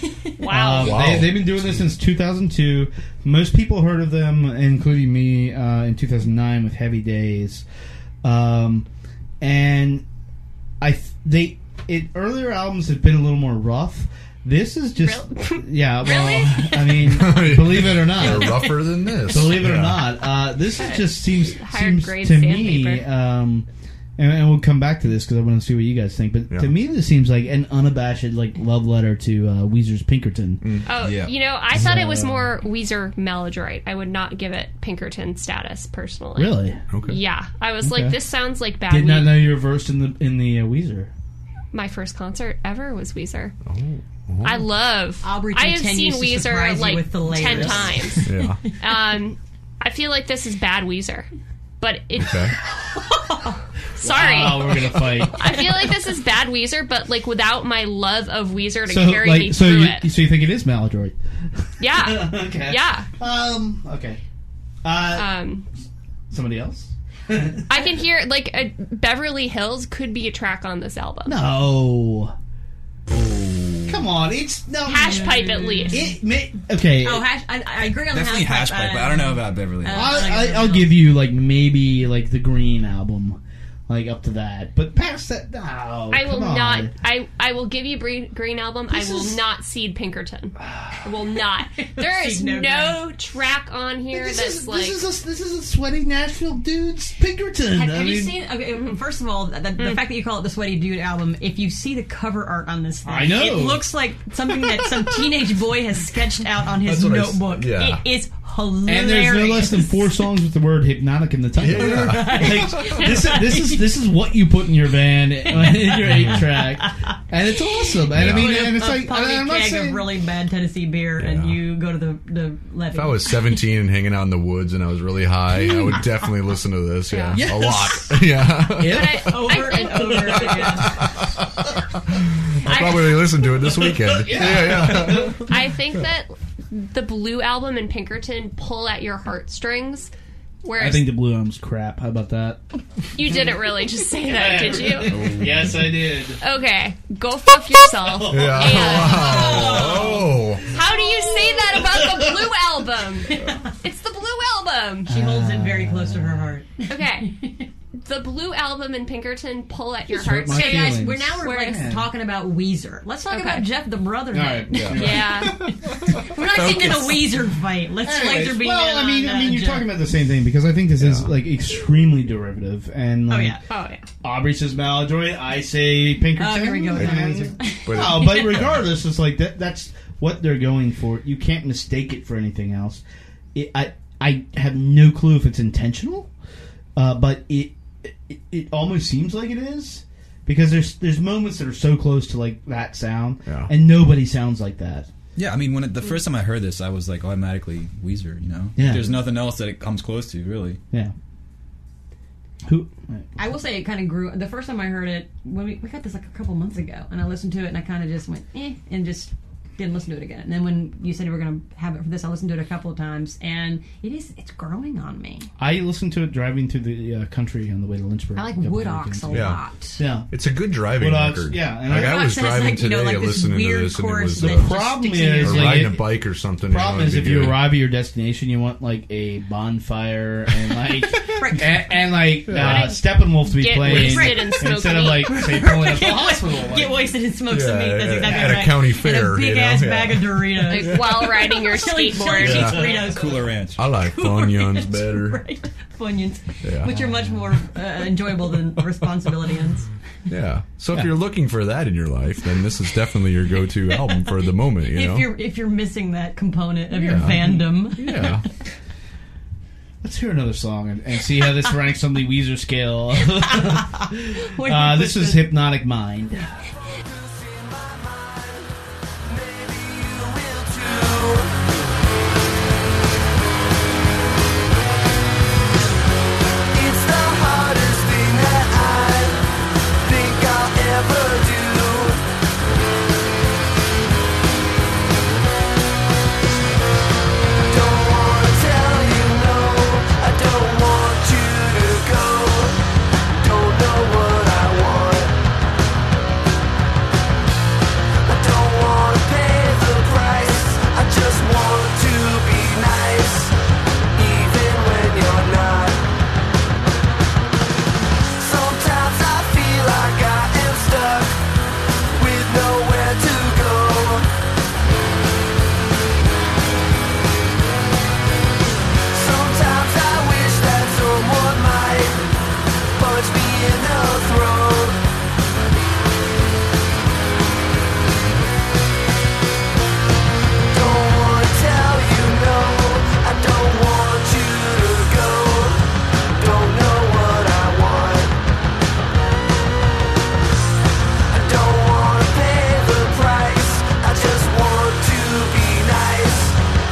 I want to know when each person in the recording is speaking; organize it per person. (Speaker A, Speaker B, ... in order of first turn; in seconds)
Speaker A: 0.4-1.2, 15.0-17.2, 20.8-23.1, 30.9-39.5, 41.7-43.5, 44.4-48.3, 48.8-51.3, 51.8-52.5, 54.0-60.1, 61.8-63.1, 65.1-65.7, 67.7-71.4, 74.8-76.1, 86.1-95.0, 127.1-127.4, 128.8-130.9, 132.6-133.3, 135.4-140.1, 140.6-141.1, 143.1-145.4, 146.4-150.2, 150.7-155.1, 156.9-157.3, 158.0-161.8, 163.3-163.6, 164.9-165.7, 173.7-174.0, 232.5-235.5, 240.7-242.9
Speaker B: 0.4-7.6, 8.2-8.9, 9.4-10.0, 10.8-23.7, 24.2-30.6, 31.7-32.5, 36.3-36.8, 37.8-38.2, 38.9-41.1, 47.4-47.9, 54.0-55.9, 58.9-61.2, 61.8-64.2, 64.8-65.3, 66.3-67.7, 71.2-72.3, 73.9-77.2, 79.9-86.9, 94.1-98.4, 103.0-103.9, 108.9-120.1, 127.3-131.1, 133.6-135.6, 140.8-142.6, 143.2-143.5, 144.2-146.4, 147.9-149.8, 151.0-152.5, 155.1-156.5, 160.1-162.1, 164.3-167.0, 168.0-173.6, 174.2-183.0, 183.5-186.3, 186.9-195.1, 198.8-199.2, 202.6-203.3, 215.6-220.3, 220.9-222.3, 224.4-237.1, 238.2-238.6, 257.2-257.6, 260.0-266.5
Speaker C: 0.7-1.9, 17.0-20.1, 30.6-30.9, 36.9-37.2, 43.6-44.7, 48.2-48.6, 52.2-52.5, 73.1-74.0, 106.8-108.0, 111.6-113.0, 116.0-116.4, 118.1-118.7, 121.2-121.6, 122.9-129.3, 130.9-135.5, 145.1-145.8, 148.2-150.7, 164.7-167.1, 171.0-171.3, 176.9-178.9, 193.4-193.7, 219.3-219.6, 220.3-227.7, 232.5-232.9, 237.4-240.8, 242.4-243.0, 243.8-245.4, 246.6-247.0, 250.3-255.3, 256.9-258.4
Speaker D: 31.0-31.3, 78.1-80.1, 195.3-200.8, 243.0-243.8
Speaker E: 45.2-48.3, 53.0-53.5, 74.9-76.1, 77.0-81.0, 89.0-89.2, 91.8-93.0, 97.7-110.1, 111.7-113.9, 115.5-117.1, 118.0-123.5, 129.2-131.0, 149.0-150.4, 153.3-153.6, 155.1-157.7, 160.5-169.9, 173.3-173.6, 176.3-178.6, 203.4-215.5, 218.3-220.0, 221.9-225.9, 231.3-231.9, 233.8-249.8, 254.8-258.3, 263.6-265.5
Speaker F: 267.0-271.6, 276.7-279.4, 280.0-282.2, 287.7-292.8, 293.3-295.4, 298.2-303.5, 304.1-306.0, 308.4-311.4, 312.1-314.3, 319.1-322.3, 322.9-325.0, 330.7-338.4, 341.3-346.6